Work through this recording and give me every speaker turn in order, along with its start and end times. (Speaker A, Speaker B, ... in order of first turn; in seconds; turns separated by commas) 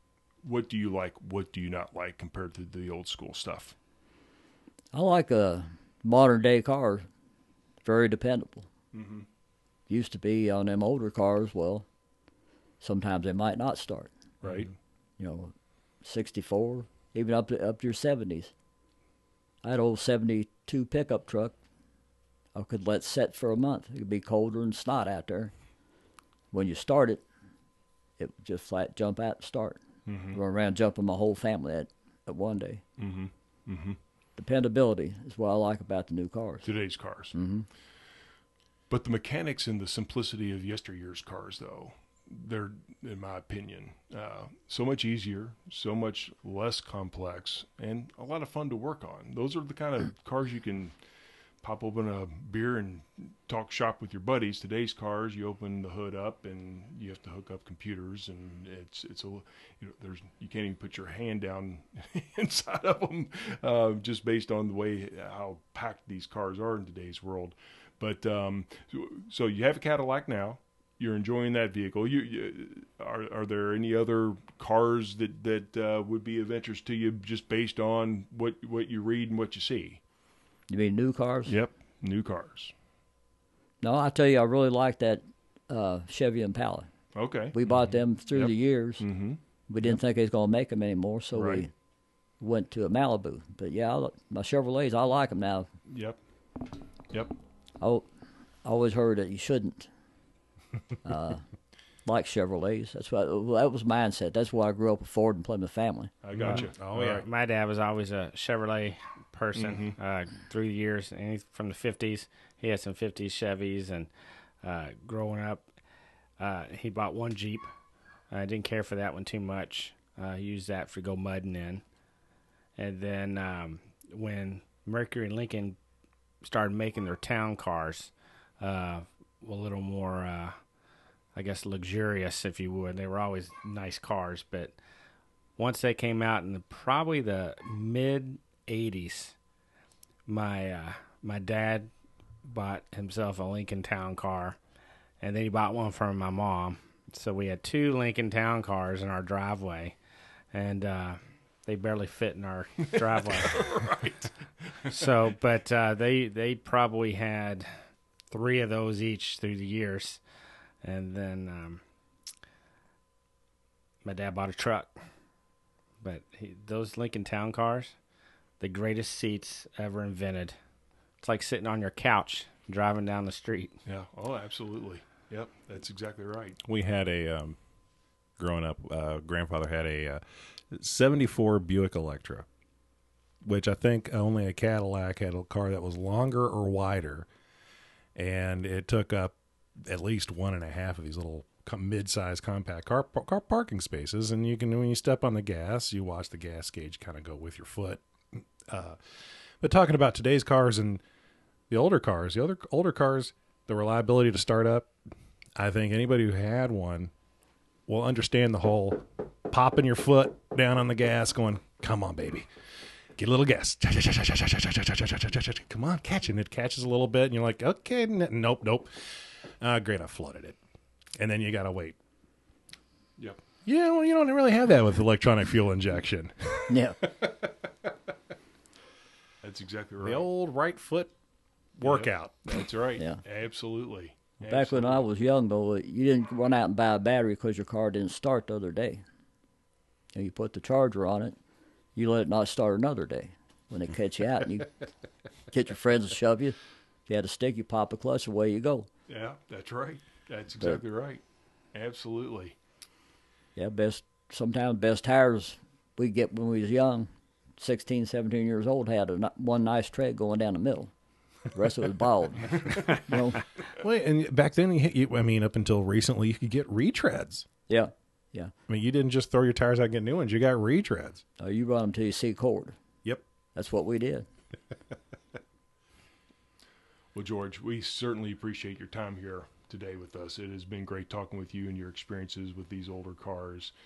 Speaker A: 0.4-3.7, Speaker B: 4.9-7.0, Speaker B: 7.8-8.7, Speaker A: 8.9-9.2, Speaker B: 9.9-11.8, Speaker B: 12.8-14.1, Speaker A: 14.4-14.7, Speaker B: 15.2-15.5, Speaker B: 16.0-18.5, Speaker B: 19.6-21.5, Speaker B: 22.5-25.5, Speaker B: 26.5-27.2, Speaker B: 28.2-29.8, Speaker A: 30.1-30.4, Speaker B: 30.3-32.8, Speaker A: 33.0-34.0, Speaker B: 34.4-36.7, Speaker A: 36.6-37.3, Speaker B: 37.3-37.6, Speaker A: 38.9-50.9, Speaker A: 51.6-80.0, Speaker B: 80.7-81.6, Speaker A: 81.5-82.7, Speaker B: 83.8-86.9, Speaker A: 87.1-87.5, Speaker B: 87.5-89.1, Speaker A: 88.3-90.0, Speaker B: 89.7-91.7, Speaker A: 91.3-91.6, Speaker B: 92.4-95.7, Speaker A: 95.9-96.2, Speaker B: 98.6-99.9, Speaker B: 101.0-101.4, Speaker B: 102.0-106.1, Speaker A: 106.2-107.2, Speaker C: 106.3-107.2, Speaker D: 106.5-114.1, Speaker A: 109.5-110.0, Speaker D: 114.6-115.6, Speaker D: 116.4-117.7, Speaker D: 118.3-121.8, Speaker D: 122.8-125.8, Speaker D: 126.4-130.6, Speaker D: 131.3-134.8, Speaker D: 135.6-139.3, Speaker D: 140.2-141.9, Speaker D: 142.4-144.6, Speaker D: 145.2-149.9, Speaker D: 150.5-153.7, Speaker A: 153.4-154.3, Speaker D: 154.8-157.7, Speaker D: 158.3-160.2, Speaker D: 160.8-161.8, Speaker D: 164.0-164.9, Speaker D: 166.0-167.9, Speaker D: 168.6-170.6, Speaker D: 171.2-173.7, Speaker A: 173.8-176.6, Speaker C: 176.6-177.6, Speaker C: 178.4-182.4, Speaker C: 183.4-187.3, Speaker C: 188.2-199.0, Speaker C: 199.6-201.0, Speaker C: 201.7-204.9, Speaker C: 205.6-207.1, Speaker C: 207.9-212.5, Speaker C: 213.2-220.6, Speaker C: 221.2-221.9, Speaker C: 223.6-226.7, Speaker B: 226.7-227.1, Speaker A: 229.4-230.2, Speaker C: 230.0-231.1, Speaker C: 231.8-232.6, Speaker A: 231.8-235.0, Speaker B: 234.4-239.0, Speaker B: 240.1-241.3, Speaker B: 241.9-244.8, Speaker B: 245.5-248.9, Speaker A: 249.1-251.2, Speaker A: 251.7-252.5, Speaker B: 253.6-260.9, Speaker B: 261.5-263.4, Speaker C: 263.7-267.4, Speaker B: 267.7-268.5, Speaker C: 268.7-271.2, Speaker B: 271.4-272.8, Speaker B: 273.5-274.2, Speaker A: 277.1-283.7